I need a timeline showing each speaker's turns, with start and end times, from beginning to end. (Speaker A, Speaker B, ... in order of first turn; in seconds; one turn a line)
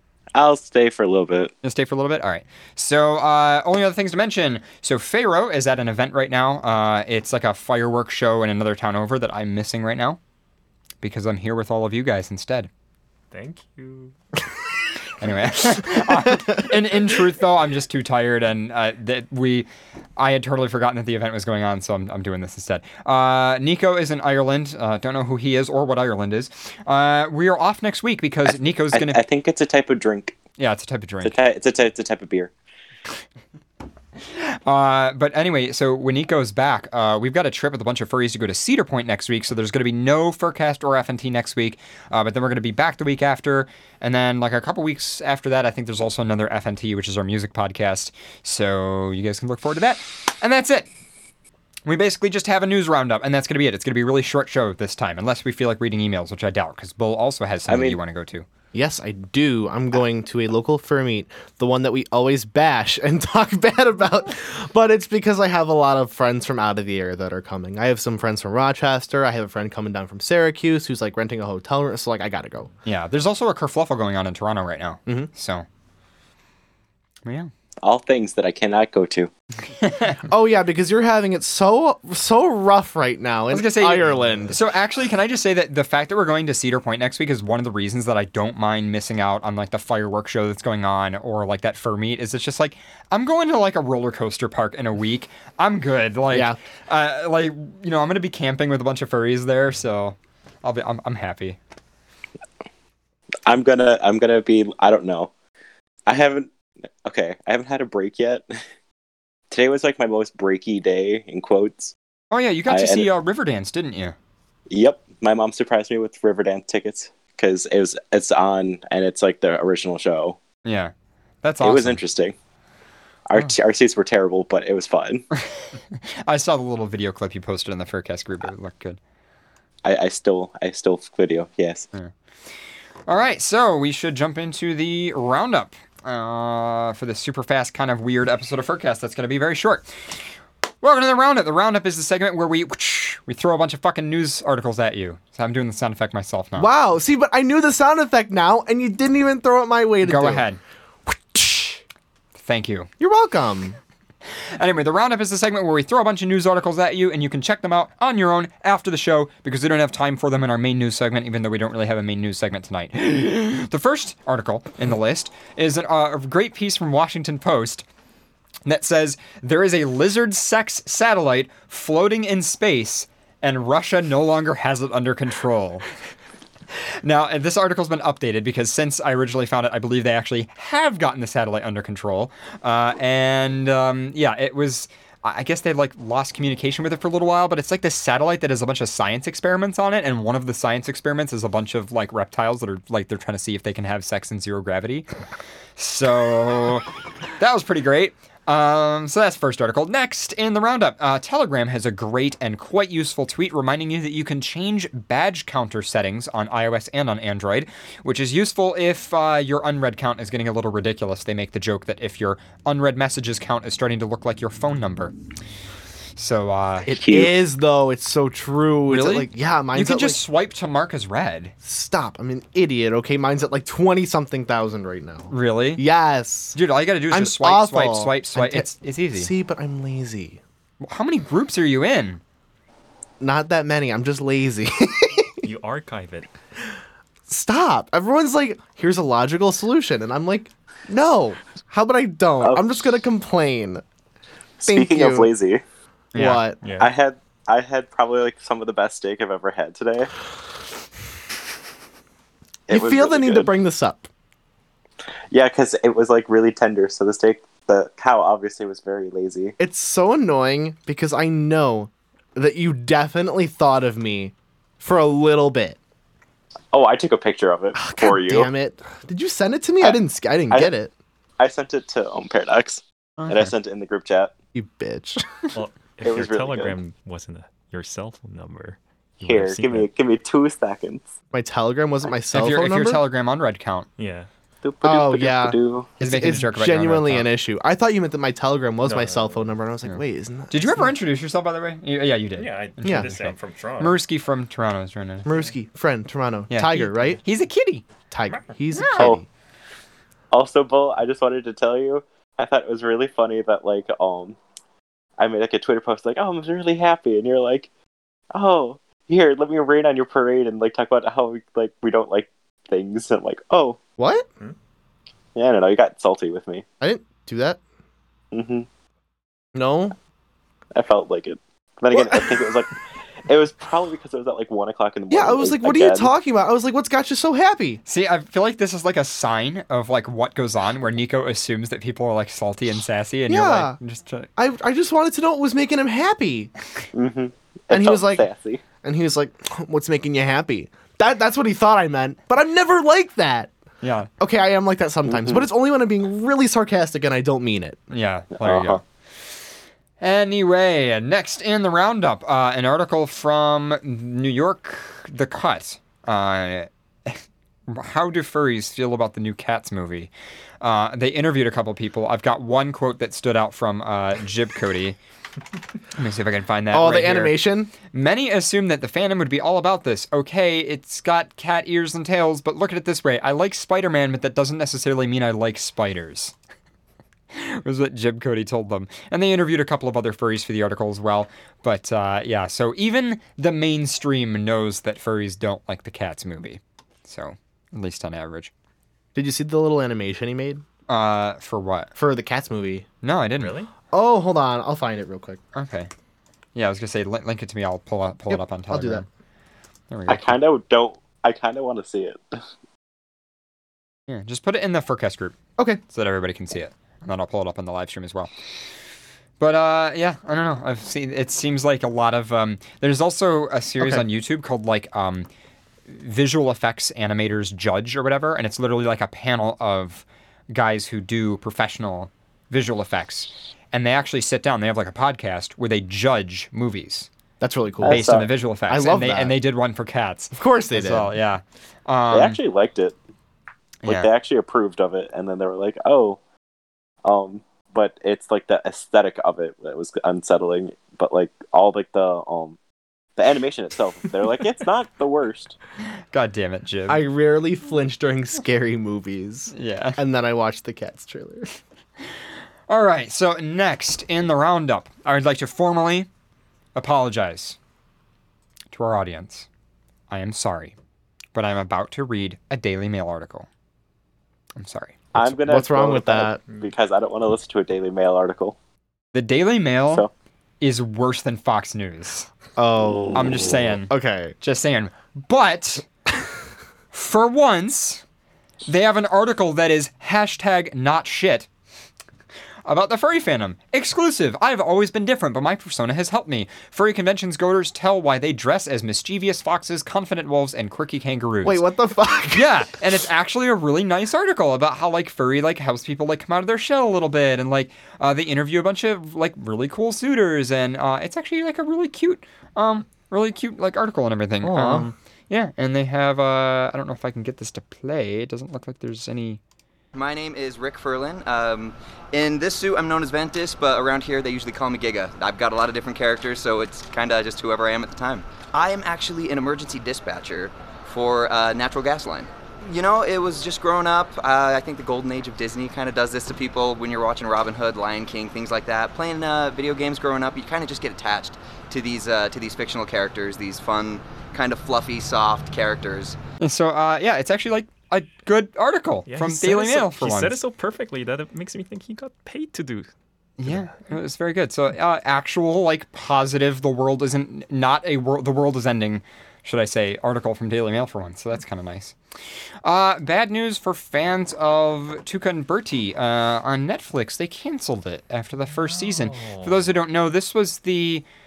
Speaker A: 0.3-1.5
Speaker B: 1.6-10.2
Speaker B: 11.0-12.7
Speaker C: 13.3-14.2
Speaker B: 15.2-29.2
Speaker A: 28.4-30.4
Speaker B: 30.6-31.4
Speaker A: 31.2-32.5
Speaker B: 34.2-50.9
Speaker B: 51.9-58.5
Speaker A: 57.7-58.0
Speaker D: 58.7-72.7
Speaker B: 72.9-75.7
Speaker B: 77.2-77.5
Speaker A: 77.8-79.3
Speaker B: 79.8-80.2
Speaker D: 80.3-84.6
Speaker B: 83.5-101.6
Speaker D: 96.3-96.6
Speaker A: 103.5-105.3
Speaker A: 106.1-106.5
Speaker A: 107.0-108.5
Speaker A: 109.5-111.9
Speaker B: 112.3-114.2
Speaker A: 112.7-113.1
Speaker A: 114.7-120.4
Speaker B: 120.7-122.0
Speaker A: 121.6-122.3
Speaker A: 123.3-125.3
Speaker B: 125.4-129.0
Speaker A: 129.8-131.9
Speaker B: 133.1-146.7
Speaker D: 146.6-150.4
Speaker B: 150.0-150.6
Speaker D: 151.1-151.8
Speaker B: 152.4-152.9
Speaker D: 153.0-153.8
Speaker B: 154.6-167.9
Speaker B: 168.7-175.9
Speaker B: 177.0-195.1
Speaker B: 195.8-196.8
Speaker B: 197.4-215.1
Speaker B: 216.2-216.9
Speaker D: 216.9-220.2
Speaker A: 216.9-217.3
Speaker B: 218.9-221.5
Speaker D: 221.6-226.6
Speaker B: 225.3-225.8
Speaker B: 226.6-229.3
Speaker D: 227.1-230.4
Speaker B: 230.8-232.2
Speaker D: 233.2-235.4
Speaker C: 235.4-236.3
Speaker D: 237.3-243.8
Speaker A: 244.6-245.6
Speaker D: 244.7-245.3
Speaker B: 246.1-246.4
Speaker D: 246.2-246.6
Speaker C: 246.6-246.9
Speaker A: 246.8-250.1
Speaker A: 252.7-253.5
Speaker D: 252.7-254.1
Speaker A: 255.3-259.6
Speaker D: 259.6-265.8
Speaker A: 266.7-268.5
Speaker D: 267.8-270.9
Speaker A: 271.4-274.3
Speaker B: 273.2-273.5
Speaker D: 274.6-275.5
Speaker C: 275.6-279.9
Speaker A: 276.0-276.8
Speaker A: 279.2-281.1
Speaker D: 281.3-283.0
Speaker B: 282.3-283.9
Speaker C: 284.0-284.3
Speaker A: 284.6-285.9
Speaker D: 284.8-290.9
Speaker B: 286.0-287.3
Speaker C: 288.8-289.5
Speaker B: 289.9-295.3
Speaker C: 292.4-294.0
Speaker D: 292.8-293.1
Speaker D: 295.2-297.2
Speaker C: 295.3-295.5
Speaker B: 296.5-297.9
Speaker D: 298.1-299.3
Speaker C: 298.3-298.6
Speaker B: 298.8-299.0
Speaker A: 300.3-304.4
Speaker A: 305.2-307.7
Speaker A: 308.3-313.8
Speaker D: 314.0-314.3
Speaker A: 315.4-316.7
Speaker D: 316.8-317.6
Speaker A: 318.3-318.7
Speaker D: 319.6-319.9
Speaker A: 320.7-326.1
Speaker D: 321.9-322.6
Speaker D: 325.1-327.8
Speaker B: 327.9-334.3
Speaker D: 333.3-333.8
Speaker D: 334.4-336.5
Speaker A: 336.9-338.6
Speaker D: 337.7-338.3
Speaker D: 338.8-343.5
Speaker B: 343.8-344.1
Speaker D: 344.2-347.8
Speaker A: 345.1-345.4
Speaker B: 347.9-348.8
Speaker A: 348.4-348.8
Speaker B: 350.0-365.0
Speaker B: 365.9-376.4
Speaker D: 366.7-367.7
Speaker B: 377.3-388.5
Speaker D: 389.1-390.6
Speaker B: 390.9-391.9
Speaker D: 392.0-392.9
Speaker B: 393.0-393.6
Speaker C: 393.4-393.7
Speaker D: 393.9-395.4
Speaker B: 395.6-395.9
Speaker B: 396.6-399.1
Speaker D: 398.3-399.0
Speaker B: 399.9-400.4
Speaker A: 400.1-402.4
Speaker B: 404.1-405.4
Speaker B: 405.9-408.3
Speaker B: 409.4-415.3
Speaker B: 415.9-427.1
Speaker D: 427.4-429.4
Speaker A: 427.8-428.3
Speaker B: 427.9-432.4
Speaker D: 430.4-431.1
Speaker A: 432.1-432.9
Speaker B: 433.8-434.1
Speaker A: 433.9-436.2
Speaker A: 437.0-442.6
Speaker A: 443.2-445.6
Speaker B: 446.1-447.0
Speaker D: 446.9-451.6
Speaker B: 449.5-450.0
Speaker B: 452.0-456.1
Speaker B: 456.8-457.6
Speaker B: 458.7-459.5
Speaker B: 460.1-460.8
Speaker B: 461.4-463.5
Speaker B: 464.6-465.1
Speaker A: 465.1-468.6
Speaker D: 465.4-466.4
Speaker B: 469.1-470.1
Speaker B: 470.6-472.3
Speaker D: 472.6-474.4
Speaker B: 473.1-475.9
Speaker B: 476.9-478.0
Speaker B: 478.7-481.5
Speaker B: 482.6-491.7
Speaker D: 491.4-492.7
Speaker B: 492.3-509.4
Speaker D: 504.4-504.9
Speaker E: 509.9-536.2
Speaker B: 536.4-540.4
Speaker C: 539.1-542.9
Speaker B: 543.4-552.0
Speaker B: 552.6-561.1
Speaker C: 558.5-559.8